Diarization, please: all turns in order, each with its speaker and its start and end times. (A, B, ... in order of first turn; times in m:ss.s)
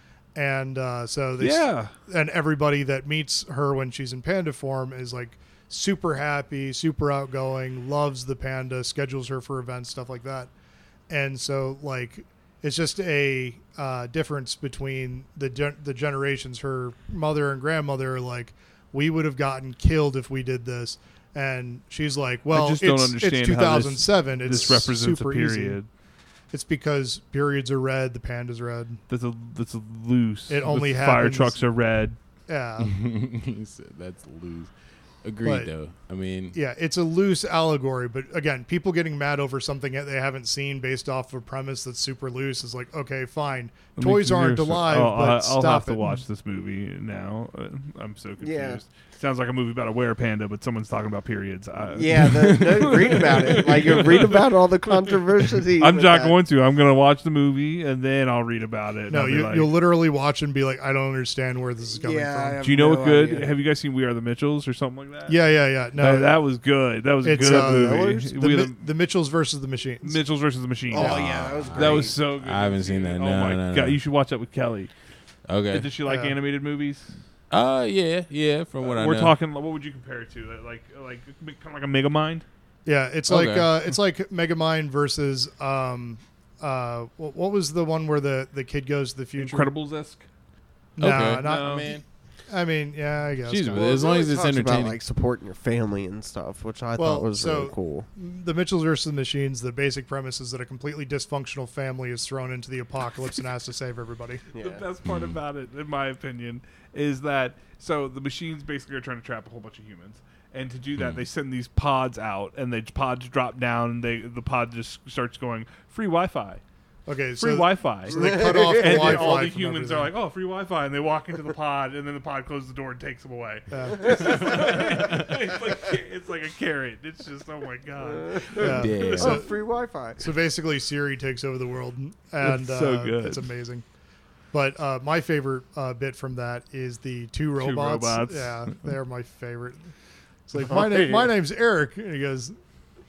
0:00.3-0:10.5 A
0:01.4-0:01.9 B
0:11.1-0:25.8 A
0:22.5-0:25.9 B
0:26.5-0:29.0 A
0:29.1-0:32.2 B
0:30.5-0:31.6 A
0:32.5-0:32.9 A
0:32.8-0:36.6 C
0:35.4-0:35.7 A
0:36.5-0:46.1 A
0:44.0-0:54.5 B
0:48.4-0:48.8 D
0:51.9-0:56.3 D
0:55.8-0:59.7 B
0:59.1-1:02.6 A
1:02.0-1:03.5 D
1:02.6-1:05.4 B
1:05.3-1:06.3 A
1:06.0-1:08.8 B
1:07.2-1:10.2 A
1:07.3-1:08.3 D
1:10.0-1:14.9 B
1:10.9-1:12.2 D
1:10.9-1:14.0 C
1:15.5-1:15.9 C
1:15.7-1:17.2 B
1:16.0-1:16.4 A
1:17.5-1:19.4 C
1:18.8-1:22.4 B
1:22.8-1:29.7 A
1:23.3-1:23.7 C
1:29.4-1:30.2 B
1:31.0-1:32.0 A
1:31.0-1:32.0 C
1:31.0-1:31.9 B
1:32.5-1:34.1 A
1:33.4-1:35.0 C
1:33.7-1:38.1 D
1:37.0-1:44.4 A
1:44.5-1:44.8 D
1:44.5-1:56.6 B
1:45.0-1:45.4 C
1:51.0-1:51.2 C
1:57.0-2:00.1 A
1:57.4-2:09.4 B
1:58.1-1:59.4 D
2:03.7-2:04.6 A
2:03.9-2:04.9 D
2:08.0-2:08.6 D
2:08.5-2:09.6 A
2:08.6-2:09.4 C
2:09.1-2:10.3 D
2:10.2-2:13.8 A
2:12.4-2:13.5 B
2:14.5-2:19.9 A
2:17.6-2:18.7 B
2:20.5-2:22.6 A
2:20.5-2:21.3 D